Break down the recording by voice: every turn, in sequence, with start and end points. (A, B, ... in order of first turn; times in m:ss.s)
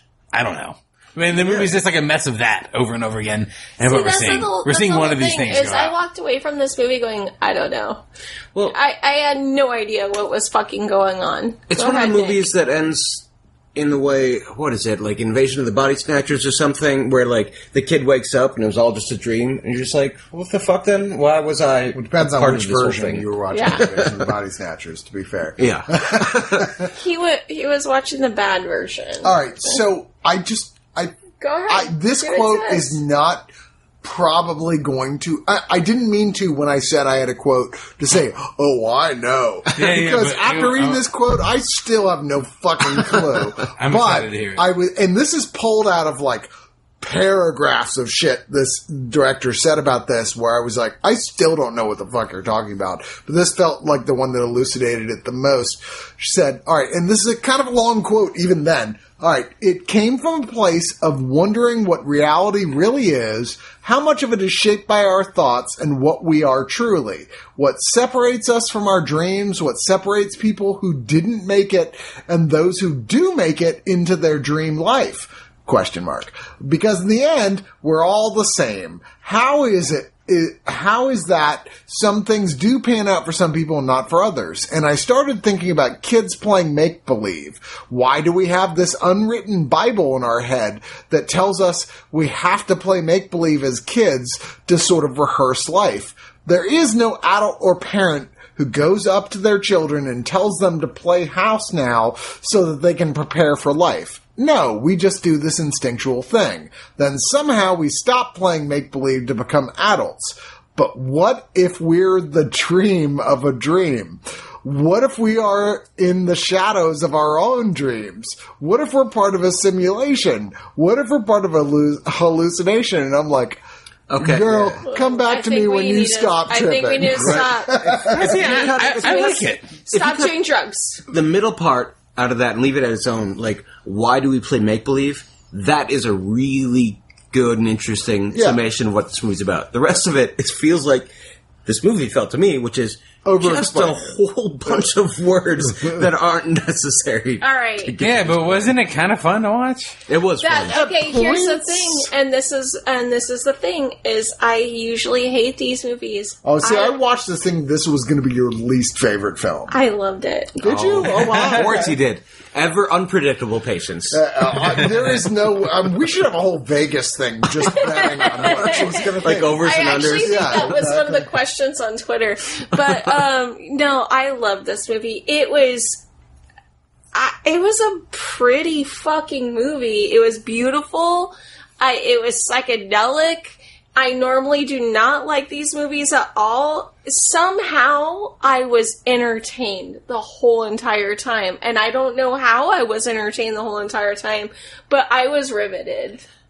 0:00.3-0:05.9 A
0:01.3-0:01.7 B
0:03.8-0:08.0 C
0:08.7-0:12.4 C
0:11.7-0:24.3 B
0:21.9-0:26.9 D
0:23.5-0:23.9 C
0:25.6-0:26.9 B
0:26.9-0:29.3 C
0:29.2-0:33.5 D
0:31.4-0:33.0 C
0:34.0-0:46.5 D
0:39.8-0:41.0 A
0:43.6-0:44.6 A
0:47.0-2:03.6 D
2:04.1-2:04.8 B
2:04.2-2:08.3 D
2:04.9-2:11.0 C
2:07.2-2:10.3 B
2:08.0-2:09.7 A
2:11.1-2:21.1 B
2:18.3-2:18.6 D
2:21.6-2:28.7 B
2:23.2-2:24.2 D
2:27.4-2:28.0 C
2:28.0-2:30.0 A
2:30.1-2:30.8 B
2:30.4-2:37.0 C
2:30.6-2:32.1 D
2:36.4-2:39.7 D
2:39.7-2:40.8 C
2:40.6-2:41.9 D
2:40.6-2:44.2 B
2:41.0-2:41.8 A
2:44.1-2:51.3 D
2:47.8-2:56.0 C
2:48.5-2:50.7 B
2:57.1-3:16.2 C